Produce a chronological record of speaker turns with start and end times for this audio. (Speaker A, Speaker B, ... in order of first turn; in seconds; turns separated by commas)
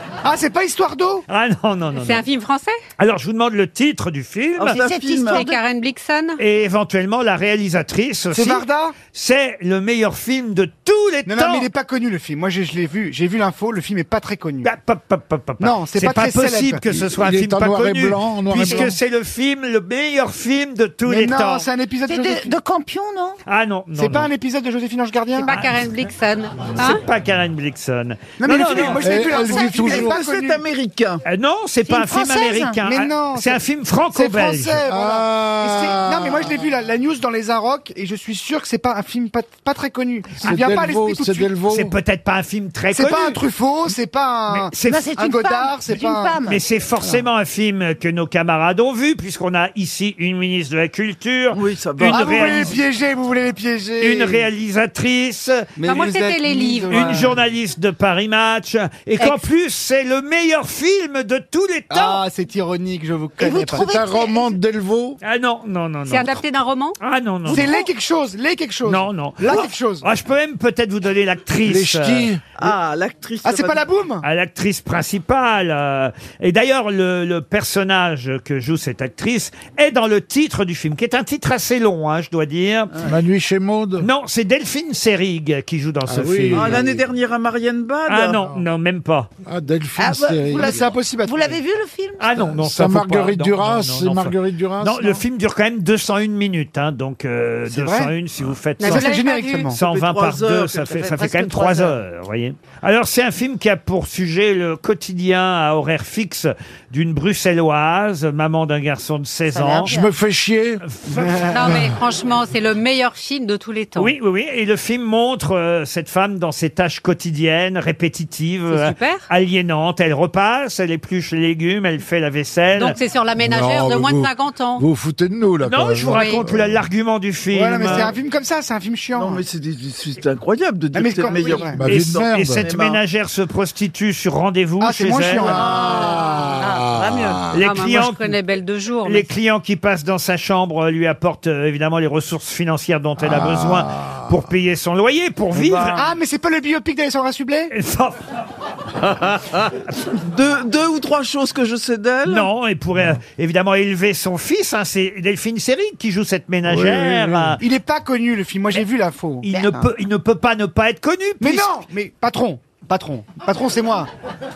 Speaker A: 0.2-1.2, Speaker B: 1.3-2.2, Speaker C: 2.0-2.8, Speaker B: 3.0-4.8, Speaker D: 4.6-5.4, Speaker E: 4.7-5.6, Speaker C: 5.3-6.4, Speaker B: 6.4-11.7, Speaker A: 8.3-8.9, Speaker A: 11.2-14.7, Speaker B: 14.6-21.6, Speaker A: 15.6-16.9, Speaker F: 17.0-18.9, Speaker A: 18.7-18.9, Speaker A: 21.1-22.5, Speaker E: 22.0-23.4, Speaker B: 23.4-24.3, Speaker A: 23.9-25.5, Speaker C: 25.4-27.0, Speaker B: 26.7-29.0, Speaker A: 28.4-30.6, Speaker F: 29.0-30.2, Speaker E: 29.1-29.9, Speaker D: 29.9-31.2, Speaker B: 31.2-34.8, Speaker E: 31.8-32.8, Speaker A: 32.8-41.5, Speaker F: 34.9-36.6, Speaker F: 40.4-41.9, Speaker B: 41.7-43.4, Speaker A: 42.9-46.4, Speaker B: 44.5-45.0, Speaker E: 44.8-46.6, Speaker B: 46.5-52.8, Speaker D: 51.5-52.6, Speaker A: 52.1-54.5, Speaker B: 54.0-56.1, Speaker A: 55.8-57.4, Speaker C: 55.9-57.2, Speaker B: 56.9-62.2, Speaker A: 61.9-63.9, Speaker E: 63.4-64.6, Speaker F: 63.8-65.2, Speaker B: 65.2-66.3, Speaker C: 66.1-67.0, Speaker B: 67.0-67.7, Speaker A: 67.5-70.0, Speaker C: 67.5-67.8, Speaker B: 68.8-72.3, Speaker F: 71.6-72.4, Speaker D: 72.6-73.9, Speaker A: 73.4-74.2, Speaker B: 74.2-82.9, Speaker F: 83.0-84.1, Speaker B: 84.0-86.9, Speaker F: 86.0-87.1, Speaker D: 86.5-88.5, Speaker B: 88.1-89.3, Speaker F: 89.5-90.8, Speaker E: 90.0-92.4, Speaker A: 90.5-91.6, Speaker B: 92.2-109.9, Speaker F: 92.4-95.2, Speaker A: 97.7-98.1, Speaker C: 98.8-99.7, Speaker A: 98.8-99.8, Speaker D: 99.8-101.5, Speaker E: 100.9-101.9, Speaker E: 109.5-110.1, Speaker F: 109.9-110.8, Speaker B: 110.8-111.7, Speaker C: 111.5-114.1, Speaker B: 114.0-123.0, Speaker C: 118.7-119.2, Speaker C: 122.7-124.8, Speaker F: 123.4-126.8, Speaker B: 125.6-128.1, Speaker C: 126.1-126.4, Speaker A: 127.5-129.4, Speaker D: 129.1-133.0, Speaker A: 130.9-131.8, Speaker F: 131.7-132.6, Speaker B: 131.8-135.6, Speaker A: 134.8-135.7, Speaker F: 135.4-137.7, Speaker E: 135.8-137.4, Speaker B: 137.5-138.3, Speaker C: 137.5-139.3, Speaker B: 139.0-146.1, Speaker F: 143.2-144.3, Speaker A: 145.5-147.7, Speaker B: 147.7-148.2, Speaker D: 150.1-152.5, Speaker B: 152.2-157.6, Speaker F: 156.7-157.6, Speaker A: 157.6-159.9, Speaker B: 159.4-161.7, Speaker A: 161.4-164.1